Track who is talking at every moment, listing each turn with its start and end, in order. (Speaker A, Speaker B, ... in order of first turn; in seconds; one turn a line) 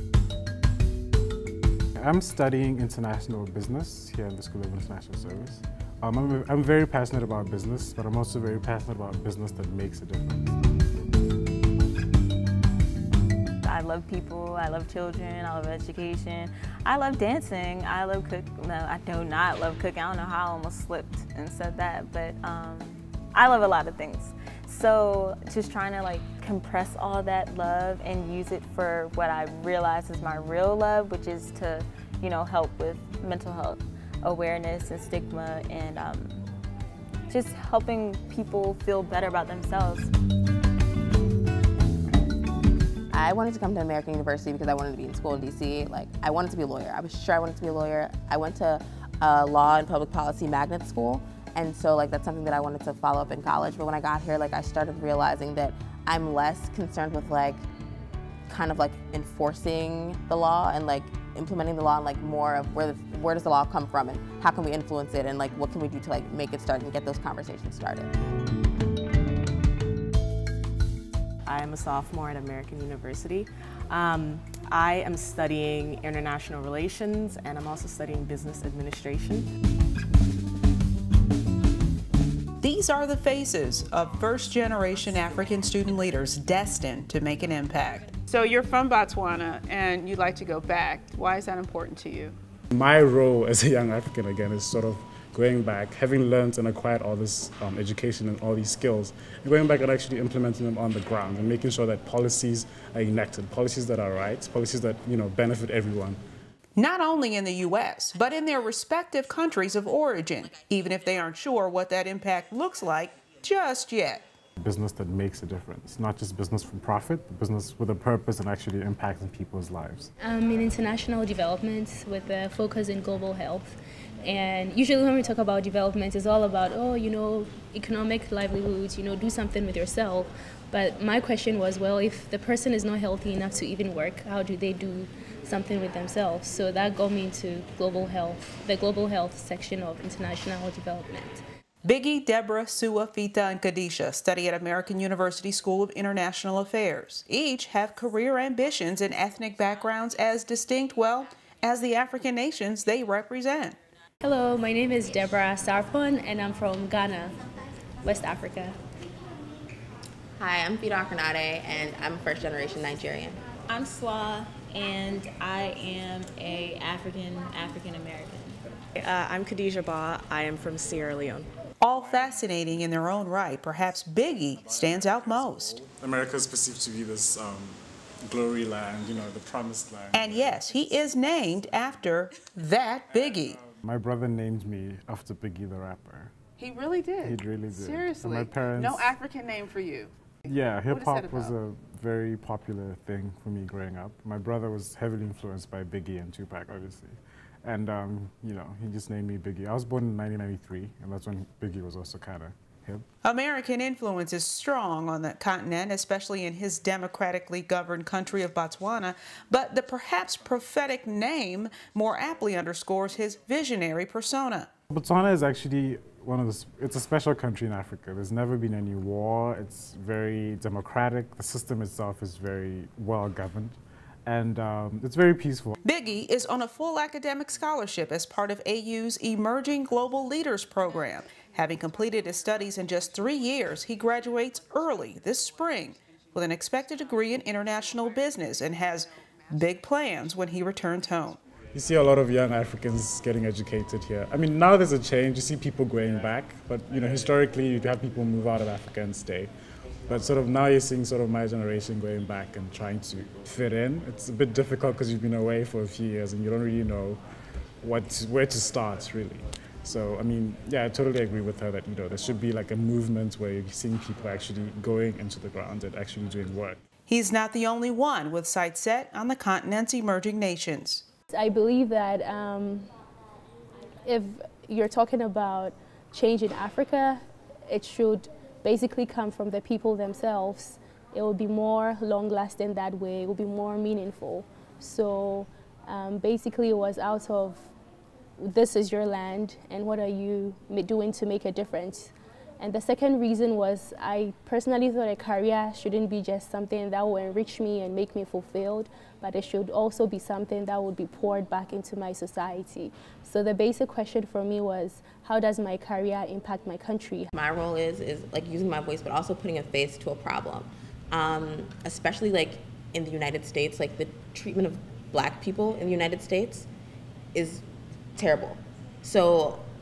Speaker A: 2.0-10.6
Speaker B: 13.6-36.4
Speaker B: 37.3-40.1
Speaker C: 43.1-57.6
Speaker C: 58.5-68.1
Speaker D: 71.5-79.5
Speaker E: 82.6-92.3
Speaker A: 92.7-106.2
Speaker E: 106.8-114.2
Speaker A: 114.6-120.1
Speaker F: 120.2-141.4
Speaker E: 141.8-153.8
Speaker F: 154.2-157.4
Speaker F: 158.0-158.8
Speaker C: 160.4-163.4
Speaker B: 163.7-168.6
Speaker D: 168.9-171.5
Speaker E: 171.8-175.8
Speaker A: 174.8-180.9
Speaker E: 180.1-183.6
Speaker A: 183.7-186.3
Speaker A: 187.2-189.2
Speaker G: 187.9-189.3
Speaker A: 190.4-203.1
Speaker G: 190.9-191.5
Speaker E: 203.2-214.7
Speaker A: 214.9-225.8
Speaker E: 225.8-241.4
Speaker A: 241.7-249.5
Speaker A: 250.1-257.2
Speaker A: 257.8-266.8
Speaker E: 267.1-271.0
Speaker F: 271.3-272.9
Speaker F: 274.0-287.7
Speaker F: 288.4-307.3
Speaker C: 307.3-316.7
Speaker C: 317.3-317.6
Speaker C: 318.1-319.6